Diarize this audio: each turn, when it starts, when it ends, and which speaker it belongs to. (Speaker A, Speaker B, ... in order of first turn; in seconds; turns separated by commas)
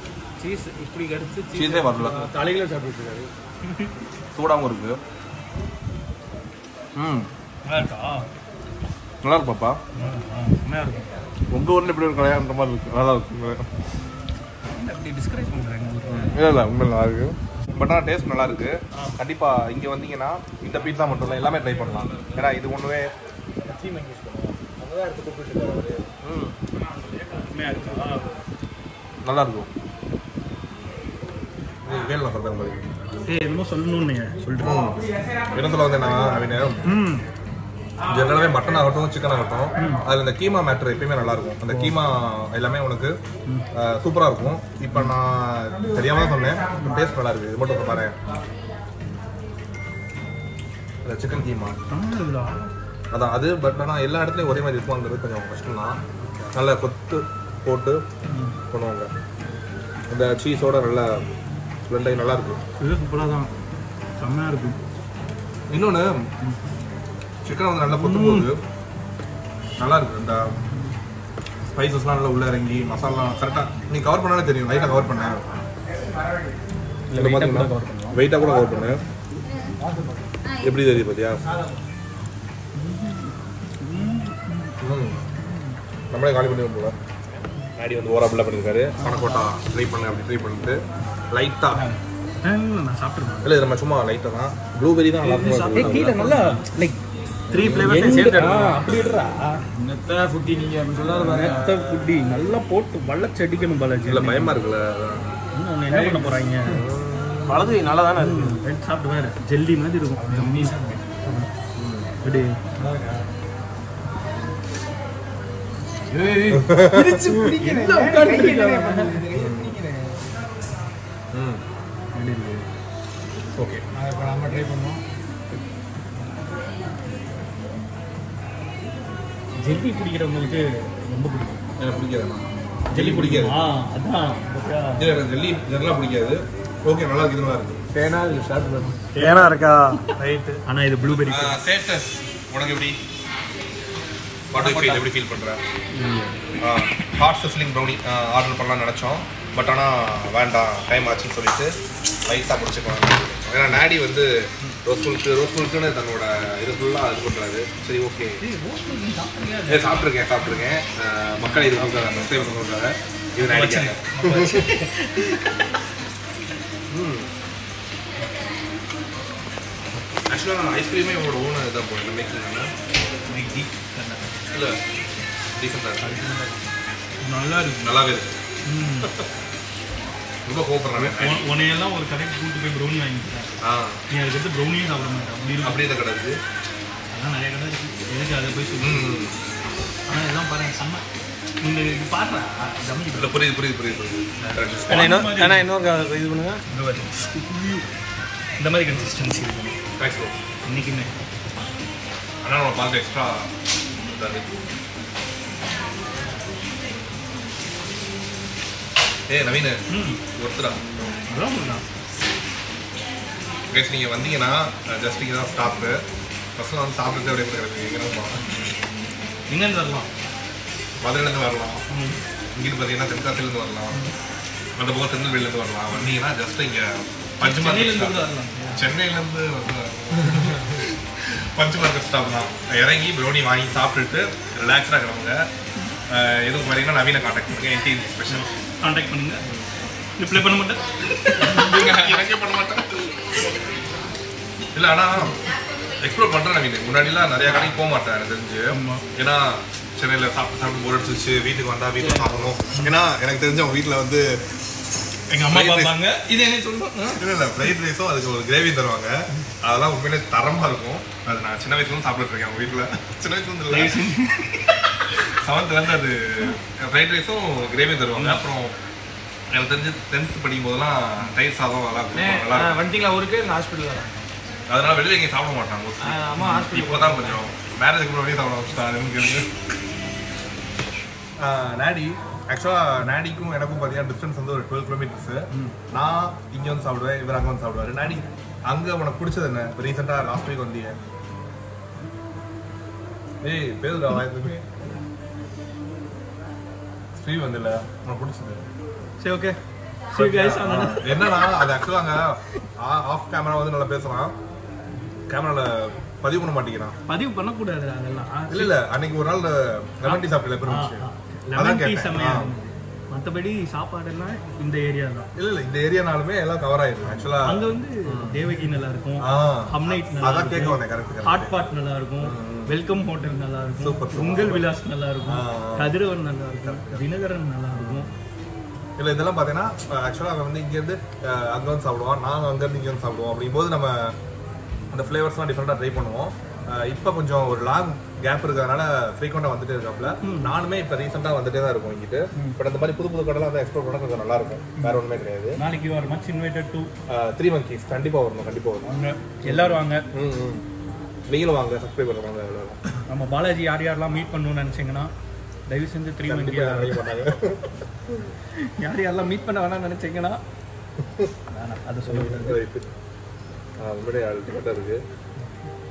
Speaker A: 0.4-3.3, Speaker B: 1.5-2.3, Speaker C: 3.6-3.9, Speaker B: 4.3-5.0, Speaker B: 7.0-7.3, Speaker C: 7.6-8.3, Speaker B: 9.2-9.8, Speaker C: 9.9-11.2, Speaker B: 11.5-13.7, Speaker C: 14.7-16.4, Speaker B: 16.1-23.1, Speaker C: 18.9-19.2, Speaker A: 22.0-22.4, Speaker A: 23.6-26.2, Speaker C: 27.4-28.3, Speaker B: 29.2-29.7, Speaker B: 31.8-33.0, Speaker C: 33.3-34.8, Speaker B: 34.6-36.8, Speaker C: 36.9-37.2, Speaker B: 38.1-43.2, Speaker C: 39.8-40.0, Speaker C: 41.7-42.0, Speaker B: 43.7-48.1, Speaker B: 51.0-51.8, Speaker C: 51.9-52.7, Speaker B: 53.1-56.0, Speaker B: 56.5-58.0, Speaker C: 58.3-58.5, Speaker B: 58.7-59.1, Speaker B: 60.1-61.2, Speaker B: 61.9-62.6, Speaker C: 62.8-63.5, Speaker C: 64.2-64.8, Speaker B: 65.7-66.2, Speaker B: 67.4-68.6, Speaker C: 67.9-68.5, Speaker B: 69.8-70.6, Speaker B: 71.7-75.4, Speaker C: 77.1-78.2, Speaker B: 77.1-79.0, Speaker A: 79.8-80.2, Speaker B: 80.6-81.4, Speaker C: 82.8-84.8, Speaker B: 84.8-85.2, Speaker C: 85.3-85.7, Speaker B: 86.1-86.9, Speaker B: 87.8-91.9, Speaker C: 92.4-93.5, Speaker B: 93.4-96.0, Speaker A: 95.2-96.6, Speaker C: 95.7-97.0, Speaker B: 97.5-98.1, Speaker A: 97.5-99.0, Speaker C: 97.8-99.6, Speaker A: 99.7-101.8, Speaker C: 101.2-104.6, Speaker B: 104.0-105.3, Speaker C: 105.5-106.8, Speaker A: 105.9-106.3, Speaker B: 106.7-107.8, Speaker A: 107.5-108.6, Speaker C: 108.2-111.5, Speaker A: 110.2-111.2, Speaker B: 111.8-112.1, Speaker C: 112.2-112.6, Speaker A: 112.8-113.3, Speaker A: 116.1-120.2, Speaker B: 116.5-117.5, Speaker C: 117.6-119.2, Speaker B: 119.3-119.8, Speaker B: 121.3-121.6, Speaker C: 122.1-122.6, Speaker B: 123.5-123.8, Speaker A: 123.9-125.0, Speaker C: 129.6-131.6, Speaker B: 131.8-133.6, Speaker C: 132.9-135.1, Speaker B: 134.9-137.8, Speaker A: 137.9-140.1, Speaker C: 139.1-141.6, Speaker B: 141.1-143.0, Speaker B: 144.5-145.6, Speaker A: 144.6-145.0, Speaker A: 145.9-146.5, Speaker B: 146.6-158.4, Speaker C: 158.4-160.2, Speaker B: 159.7-164.8, Speaker C: 161.4-162.3, Speaker C: 163.4-165.5, Speaker B: 166.9-167.3, Speaker B: 170.3-172.7, Speaker C: 173.3-174.3, Speaker B: 174.5-174.8, Speaker B: 175.6-176.2, Speaker C: 176.0-176.6, Speaker C: 177.2-177.9, Speaker B: 177.8-178.4, Speaker C: 178.7-179.1, Speaker B: 180.4-181.4, Speaker C: 180.9-185.8, Speaker B: 183.6-184.0, Speaker B: 185.6-186.4, Speaker C: 187.1-189.3, Speaker B: 188.8-189.3, Speaker C: 190.1-191.0, Speaker C: 191.6-193.3, Speaker B: 193.1-195.2, Speaker C: 194.4-195.7, Speaker A: 194.9-196.6, Speaker C: 196.7-197.3, Speaker A: 197.3-197.8, Speaker C: 198.6-199.8, Speaker B: 200.0-200.4, Speaker C: 200.6-201.1, Speaker B: 202.4-204.5, Speaker B: 209.3-209.8, Speaker C: 209.9-210.2, Speaker B: 210.4-211.0, Speaker C: 211.3-211.8, Speaker B: 213.7-216.0, Speaker B: 216.6-218.5, Speaker C: 219.5-220.1, Speaker B: 221.0-221.8, Speaker C: 221.9-222.2, Speaker B: 222.5-224.0, Speaker B: 224.8-235.4, Speaker C: 227.4-228.8, Speaker B: 236.1-238.5, Speaker C: 238.3-239.4, Speaker C: 240.2-242.2, Speaker B: 241.4-243.1, Speaker B: 244.7-245.4, Speaker B: 246.0-254.4, Speaker C: 247.4-247.7, Speaker C: 248.7-249.0, Speaker C: 255.3-257.3, Speaker B: 255.4-256.0, Speaker B: 257.1-264.1, Speaker C: 263.7-264.8, Speaker B: 265.2-268.8, Speaker C: 268.1-268.4, Speaker B: 269.5-272.8, Speaker A: 272.1-274.3, Speaker B: 274.7-279.5, Speaker A: 276.0-277.4, Speaker B: 281.4-290.9, Speaker B: 293.4-294.6, Speaker B: 297.2-298.6, Speaker C: 299.2-299.6, Speaker C: 300.1-301.7, Speaker B: 300.1-304.3, Speaker B: 305.3-306.9, Speaker C: 307.1-308.7, Speaker B: 308.5-312.5, Speaker C: 310.0-315.3, Speaker B: 315.4-318.5, Speaker C: 317.4-328.1, Speaker B: 319.2-321.5, Speaker B: 322.2-322.8, Speaker B: 323.8-324.7, Speaker B: 325.2-326.0, Speaker B: 326.6-327.0, Speaker B: 327.8-328.1, Speaker B: 329.0-334.1, Speaker B: 334.9-345.6, Speaker C: 340.2-340.5, Speaker C: 345.6-346.9, Speaker B: 347.1-348.9, Speaker C: 348.8-350.0, Speaker B: 349.4-350.6, Speaker B: 351.3-352.8, Speaker C: 353.1-355.1, Speaker C: 355.7-357.3, Speaker B: 356.2-357.7, Speaker C: 358.6-360.4, Speaker B: 361.0-361.3, Speaker C: 361.5-362.6, Speaker B: 362.1-362.9, Speaker B: 363.8-365.0